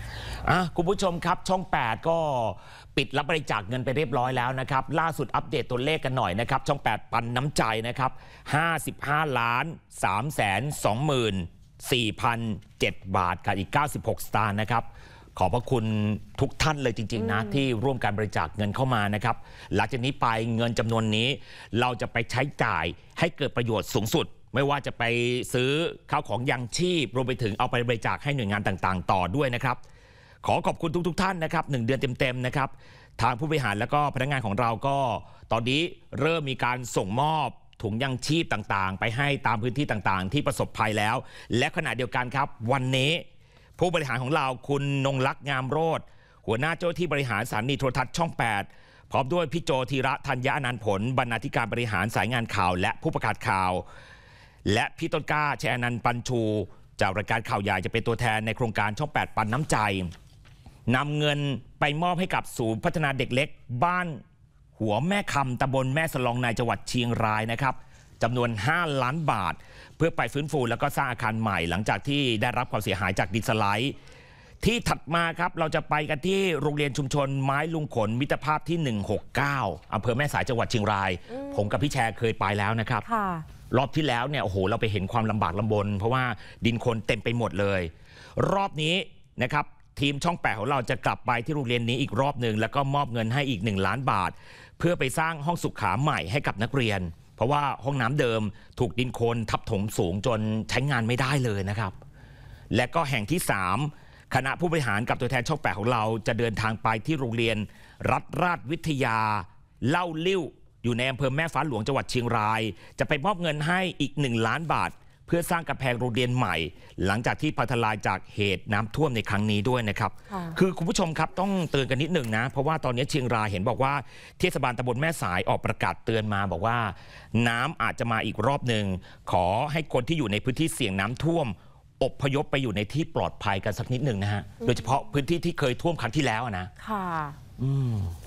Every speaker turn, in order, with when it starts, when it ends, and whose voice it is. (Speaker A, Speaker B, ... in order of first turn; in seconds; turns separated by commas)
Speaker A: 0.3-29.8, Speaker B: 17.2-17.6, Speaker A: 30.4-43.2, Speaker A: 43.8-53.8, Speaker A: 54.7-60.1, Speaker A: 60.9-64.2, Speaker A: 64.8-73.9, Speaker A: 74.6-83.0, Speaker B: 81.3-81.7, Speaker B: 83.0-83.4, Speaker A: 83.7-101.9, Speaker A: 102.7-136.7, Speaker B: 120.3-120.6, Speaker B: 134.6-135.0, Speaker B: 136.8-137.4, Speaker A: 137.6-138.2